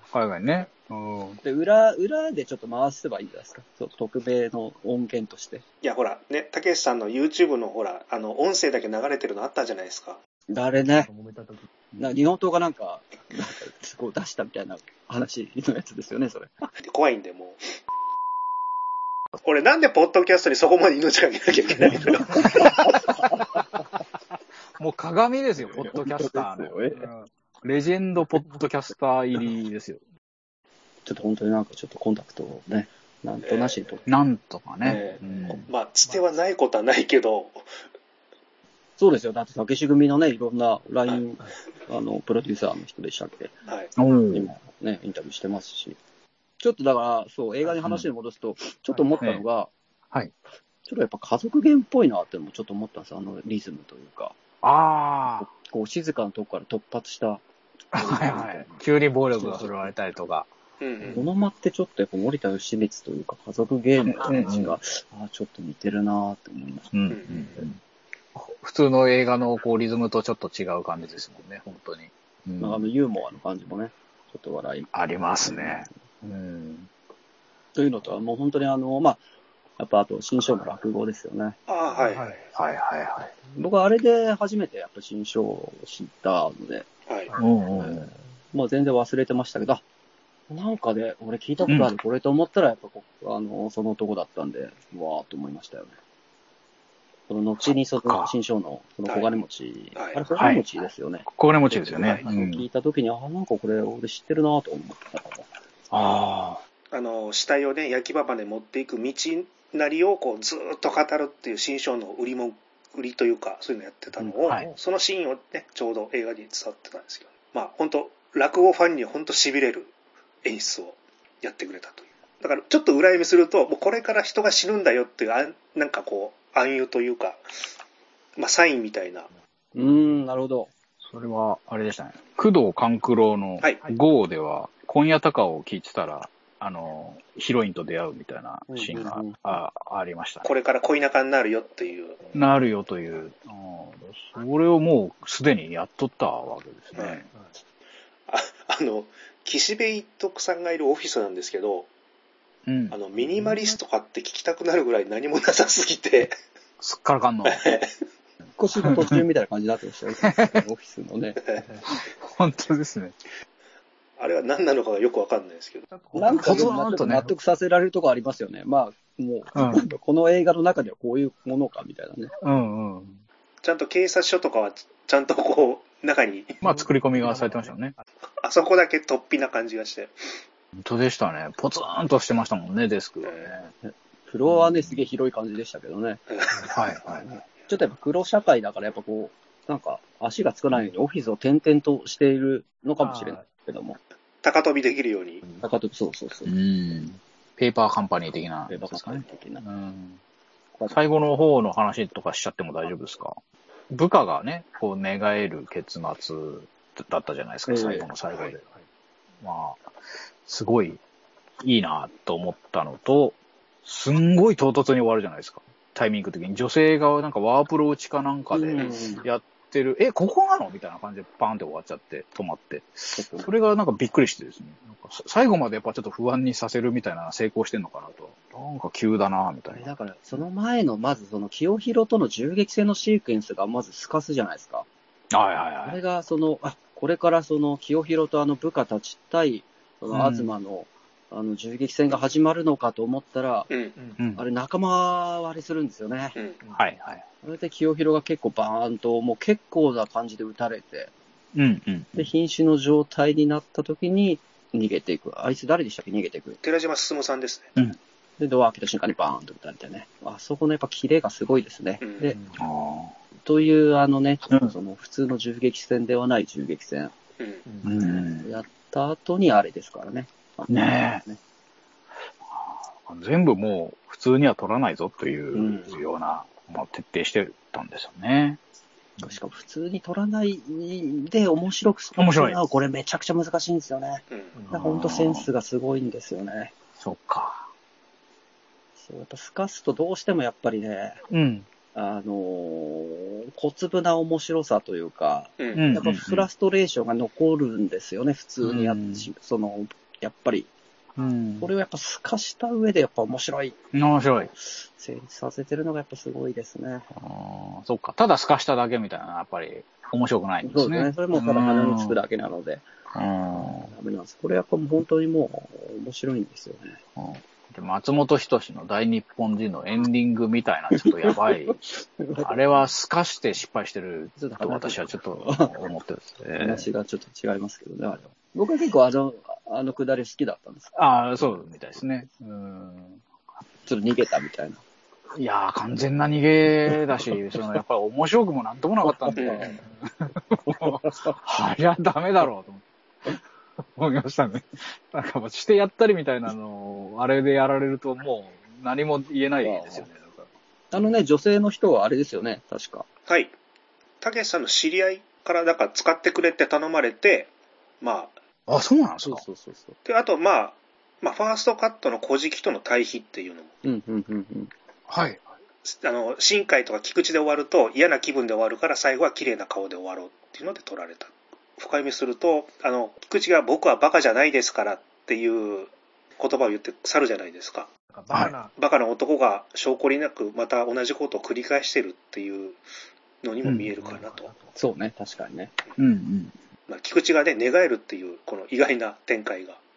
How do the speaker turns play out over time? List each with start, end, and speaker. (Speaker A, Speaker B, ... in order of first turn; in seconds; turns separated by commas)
Speaker A: 0.1-1.4, Speaker B: 1.4-5.6, Speaker C: 5.8-10.2, Speaker B: 10.5-11.1, Speaker D: 11.1-11.7, Speaker B: 12.0-16.7, Speaker C: 16.8-17.7, Speaker C: 19.4-22.6, Speaker B: 22.1-23.8, Speaker A: 22.3-22.9, Speaker A: 24.8-30.0, Speaker B: 25.6-27.1, Speaker B: 31.1-34.0, Speaker C: 33.5-33.8, Speaker A: 34.0-35.7, Speaker C: 34.8-37.8, Speaker B: 39.0-43.5, Speaker C: 43.7-43.9, Speaker A: 44.0-44.5, Speaker B: 44.3-46.0, Speaker B: 46.6-49.7, Speaker B: 50.9-54.4, Speaker A: 54.6-55.5, Speaker B: 55.3-57.4, Speaker A: 57.9-60.5, Speaker B: 57.9-58.8, Speaker B: 59.4-59.9, Speaker C: 60.8-61.3, Speaker B: 61.1-66.9, Speaker A: 64.0-64.8, Speaker A: 66.9-67.8, Speaker C: 67.1-67.5, Speaker A: 68.3-72.9, Speaker B: 72.6-75.9, Speaker A: 74.9-76.9, Speaker B: 77.7-79.2, Speaker B: 79.8-81.6, Speaker C: 81.7-82.4, Speaker D: 81.9-82.5, Speaker A: 82.5-83.3, Speaker B: 83.5-86.9, Speaker A: 87.4-88.1, Speaker B: 87.7-89.8, Speaker B: 90.5-95.9, Speaker A: 91.7-91.9, Speaker B: 97.3-105.5, Speaker A: 97.7-98.3, Speaker C: 99.0-99.3, Speaker C: 100.0-100.2, Speaker A: 100.4-100.6, Speaker A: 101.3-102.7, Speaker C: 102.0-102.2, Speaker A: 105.9-106.6, Speaker C: 106.9-119.9, Speaker B: 114.2-114.7, Speaker C: 120.4-127.4, Speaker C: 128.4-129.3, Speaker B: 129.7-130.7, Speaker A: 131.0-140.5, Speaker B: 138.7-139.4, Speaker C: 140.4-142.2, Speaker D: 142.2-142.6, Speaker A: 142.3-147.3, Speaker C: 146.9-147.2, Speaker C: 148.3-151.9, Speaker A: 152.7-153.0, Speaker C: 152.9-156.3, Speaker A: 156.8-157.7, Speaker C: 157.4-157.9, Speaker B: 158.6-161.4, Speaker A: 158.8-159.2, Speaker A: 160.2-160.6, Speaker C: 161.4-161.7, Speaker D: 161.6-161.9, Speaker A: 161.9-163.2, Speaker C: 164.2-165.8, Speaker D: 165.9-166.8, Speaker B: 166.1-172.3, Speaker A: 166.2-167.3, Speaker A: 169.5-169.8, Speaker A: 172.4-173.2, Speaker C: 173.6-176.6, Speaker A: 176.6-177.9, Speaker D: 176.6-178.0, Speaker C: 178.4-180.4, Speaker A: 180.7-183.7, Speaker C: 183.2-183.6, Speaker B: 183.8-186.2, Speaker A: 184.5-185.0, Speaker C: 186.3-186.7, Speaker D: 186.5-186.8, Speaker A: 186.7-187.2, Speaker B: 187.1-194.0, Speaker D: 193.0-193.4, Speaker C: 194.4-195.4, Speaker B: 195.6-196.5, Speaker A: 196.4-200.2, Speaker B: 198.7-199.6, Speaker A: 200.9-203.4, Speaker A: 203.9-208.6, Speaker B: 207.7-208.1, Speaker D: 208.3-208.8, Speaker A: 209.4-209.9, Speaker A: 210.4-211.0, Speaker A: 211.6-229.9, Speaker B: 218.5-219.2, Speaker B: 223.1-223.5, Speaker B: 229.7-234.9, Speaker A: 235.3-236.0, Speaker B: 235.8-243.7, Speaker A: 240.1-240.5, Speaker C: 243.7-243.9, Speaker D: 243.9-244.2, Speaker A: 244.2-244.4, Speaker B: 244.4-246.4, Speaker A: 246.7-247.2, Speaker B: 247.4-251.1, Speaker A: 251.6-252.2, Speaker B: 252.1-256.6, Speaker C: 256.6-257.7, Speaker B: 258.4-262.4, Speaker C: 262.0-262.4, Speaker D: 262.3-262.6, Speaker A: 262.6-263.1, Speaker B: 263.4-267.1, Speaker D: 267.7-268.0, Speaker A: 267.8-268.5, Speaker B: 268.1-271.4, Speaker A: 270.7-271.2, Speaker A: 272.4-278.6, Speaker B: 275.5-275.9, Speaker B: 279.2-286.7, Speaker A: 282.2-282.6, Speaker D: 284.6-284.9, Speaker A: 284.7-285.5, Speaker A: 287.0-287.7, Speaker B: 289.0-291.2, Speaker A: 291.3-291.7, Speaker B: 291.9-300.7, Speaker C: 295.6-295.9, Speaker A: 295.7-296.5, Speaker A: 298.6-299.3, Speaker A: 301.2-301.7, Speaker B: 301.6-303.8, Speaker A: 303.9-304.5, Speaker B: 304.6-307.1, Speaker A: 307.2-312.2, Speaker B: 310.6-312.9, Speaker A: 313.1-313.9, Speaker B: 313.6-317.0, Speaker A: 317.2-326.9, Speaker B: 321.0-322.6, Speaker B: 324.4-325.7, Speaker B: 326.6-331.6, Speaker A: 330.9-333.2, Speaker B: 333.9-334.8, Speaker A: 335.3-350.5, Speaker B: 339.0-339.8, Speaker C: 339.3-339.8, Speaker B: 340.7-341.4, Speaker B: 349.6-350.1, Speaker B: 350.9-353.1, Speaker C: 353.3-353.5, Speaker C: 354.2-358.4, Speaker A: 358.7-359.4, Speaker B: 359.2-360.0, Speaker C: 360.1-363.7, Speaker B: 363.8-364.7, Speaker A: 365.1-365.5, Speaker C: 365.9-377.9, Speaker D: 378.1-378.7, Speaker A: 378.3-378.6, Speaker C: 378.8-382.8, Speaker C: 383.4-384.5, Speaker A: 383.6-383.9, Speaker D: 383.9-384.7, Speaker B: 384.7-385.7, Speaker A: 386.0-386.5, Speaker C: 386.9-389.8